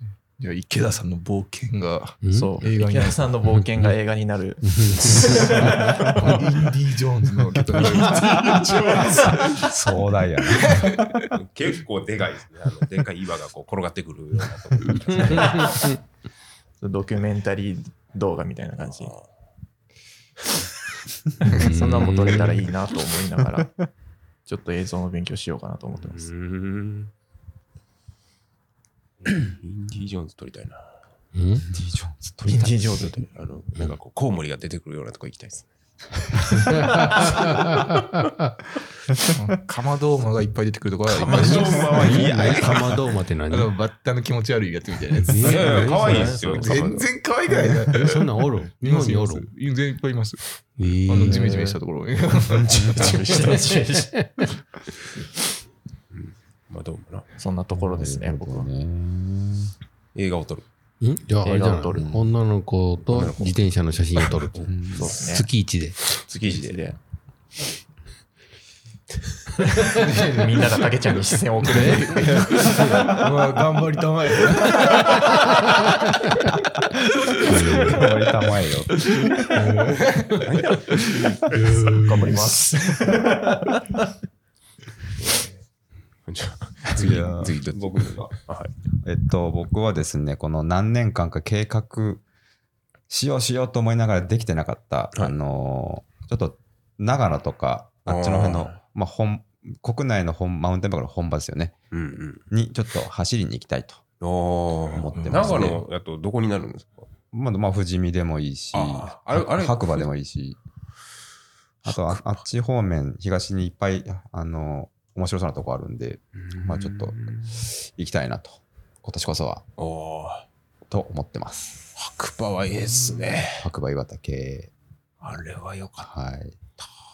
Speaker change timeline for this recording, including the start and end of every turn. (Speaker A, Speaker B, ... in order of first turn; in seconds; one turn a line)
Speaker A: 0.4-3.3
Speaker B: 2.2-2.5
Speaker C: 2.3-6.3
Speaker B: 3.6-3.9
Speaker B: 4.6-6.1
Speaker A: 5.3-9.7
Speaker D: 7.9-9.6
Speaker E: 9.3-10.9
Speaker A: 10.4-11.3
Speaker D: 11.2-15.8
Speaker B: 15.2-16.0
Speaker C: 15.2-15.9
Speaker C: 16.8-19.1
Speaker D: 18.8-19.3
Speaker B: 21.4-22.6
Speaker C: 21.4-23.8
Speaker C: 24.4-26.3
Speaker D: 26.0-27.1
Speaker D: 29.2-30.9
Speaker B: 31.3-31.6
Speaker E: 31.7-33.2
Speaker C: 32.4-33.3
Speaker D: 33.1-35.7
Speaker D: 36.3-37.5
Speaker B: 36.6-38.5
Speaker A: 39.4-42.9
Speaker D: 41.0-43.0
Speaker B: 41.3-43.7
Speaker A: 43.5-50.4
Speaker B: 45.2-46.9
Speaker D: 45.4-47.1
Speaker C: 46.0-46.5
Speaker B: 47.9-49.5
Speaker B: 50.8-51.8
Speaker A: 51.0-52.9
Speaker C: 51.2-51.6
Speaker C: 52.6-54.1
Speaker E: 52.7-53.3
Speaker B: 53.3-54.5
Speaker D: 56.1-57.3
Speaker C: 57.4-58.7
Speaker E: 57.7-59.7
Speaker D: 60.1-60.6
Speaker B: 61.0-66.0
Speaker C: 61.4-62.1
Speaker E: 61.9-62.3
Speaker D: 63.1-63.6
Speaker D: 64.2-65.1
Speaker E: 64.7-65.1
Speaker C: 65.0-65.5
Speaker D: 66.1-66.9
Speaker C: 66.4-67.0
Speaker C: 69.8-73.3
Speaker A: 69.9-70.4
Speaker B: 71.7-73.1
Speaker A: 71.8-75.6
Speaker B: 77.4-78.0
Speaker E: 77.4-79.2
Speaker A: 79.0-81.9
Speaker B: 79.5-80.4
Speaker D: 80.4-81.6
Speaker B: 81.6-82.0
Speaker C: 81.9-83.7
Speaker D: 85.2-85.6
Speaker D: 86.3-88.7
Speaker E: 86.9-88.3
Speaker E: 89.0-92.2
Speaker E: 93.1-101.8
Speaker D: 98.0-98.8
Speaker D: 101.9-102.4
Speaker E: 102.5-104.0
Speaker D: 104.2-107.1
Speaker E: 104.9-105.8
Speaker E: 107.3-110.6
Speaker D: 108.7-110.0
Speaker E: 111.8-119.6
Speaker D: 111.9-112.4
Speaker D: 116.4-117.6
Speaker D: 119.8-120.5
Speaker E: 120.9-121.9
Speaker D: 122.0-123.7
Speaker E: 123.5-124.7
Speaker D: 125.2-126.1
Speaker E: 126.0-126.5